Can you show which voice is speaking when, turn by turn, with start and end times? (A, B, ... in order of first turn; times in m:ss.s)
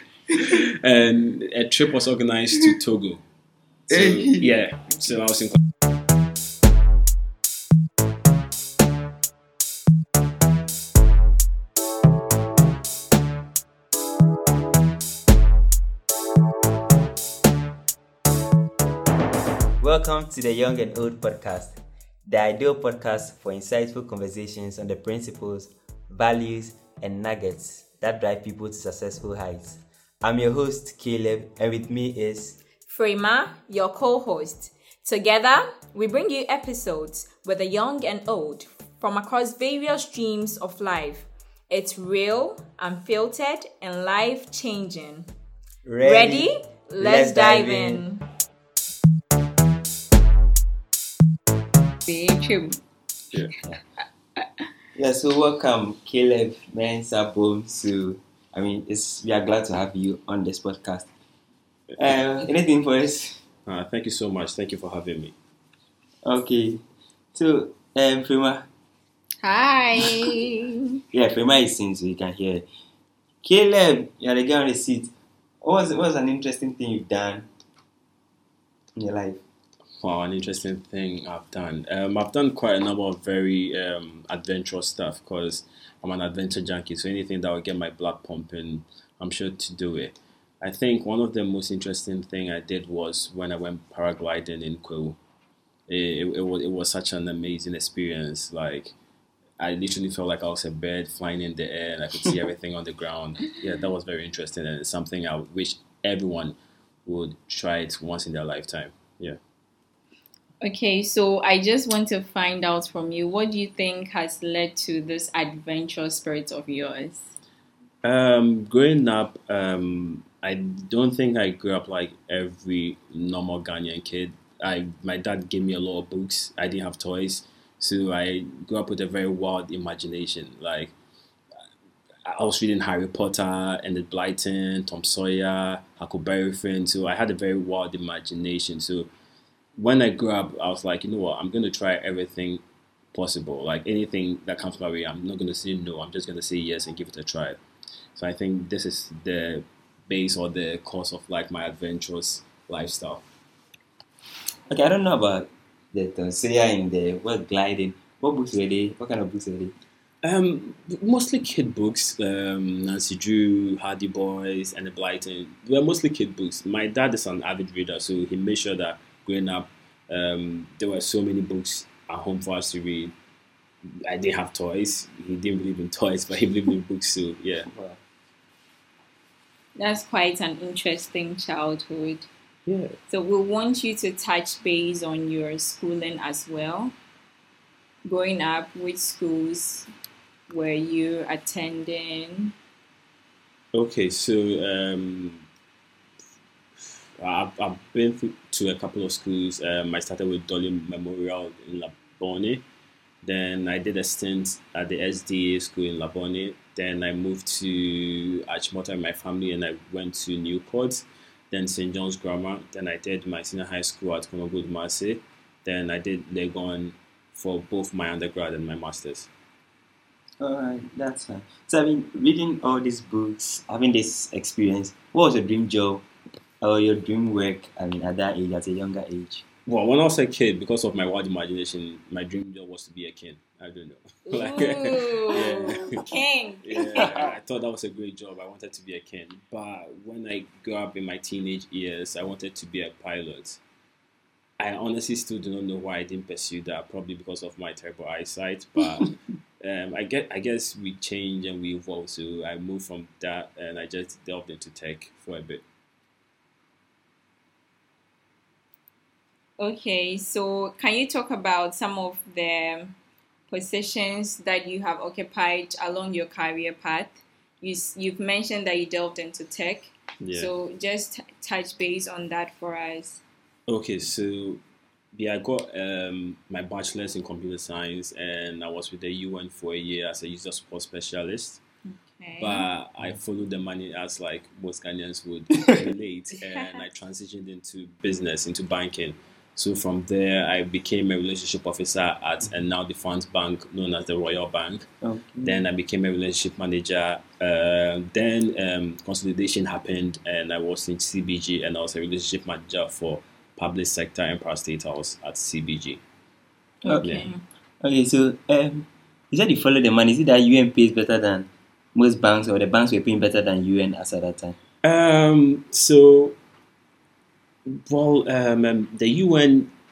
0:00.3-0:03.2 A
0:03.9-0:05.6 A
0:03.9-0:04.5 B
0:19.8-0:32.6 B
0:32.9-0:45.3 C
0:45.8-0:46.5 B
0:46.0-0:48.2 C
0:47.0-0:48.0 B
0:52.0-0:52.8 C
0:54.4-0:54.6 C
0:54.9-1:01.1 B
1:02.0-1:03.4 B
1:03.6-1:05.3 A
1:06.2-1:06.8 B
1:07.3-1:08.7 B
1:09.4-1:11.0 C
1:11.1-1:12.6 B
1:13.4-1:15.1 B
1:15.6-1:17.5 B
1:19.0-1:19.4 B
1:20.0-1:35.2 A
1:35.9-1:38.9 A
1:39.6-1:49.4 A
1:50.6-1:57.3 C
1:58.0-2:10.9 A
2:12.2-2:19.1 A
2:19.8-2:27.6 A
2:28.1-2:33.2 A
2:34.7-2:39.7 B
2:40.2-2:53.1 A
2:54.0-2:57.7 A
2:57.7-2:58.0 B
2:59.8-3:02.3 C
3:02.7-3:03.0 A
3:03.1-3:06.9 C
3:08.0-3:09.9 C
3:10.5-3:12.5 C
3:13.7-3:15.4 A
3:17.2-3:22.6 A
3:23.2-3:39.3 A
3:40.4-3:46.0 B
3:46.6-3:49.4 B
3:49.6-3:56.0 A
3:54.3-3:57.3 C
3:56.6-4:03.6 A
4:04.6-4:15.6 A
4:19.6-4:22.9 C
4:23.5-4:33.2 C
4:30.2-4:30.5 A
4:33.7-4:34.6 A
4:35.1-4:41.6 A
4:41.8-4:42.6 C
4:42.4-4:54.9 A
4:46.4-4:46.8 C
4:55.0-4:55.6 B
4:55.4-5:06.0 A
5:06.8-5:07.4 C
5:06.8-5:07.1 B
5:07.0-5:07.3 A
5:07.8-5:14.6 B
5:14.8-5:16.4 A
5:17.6-5:19.7 A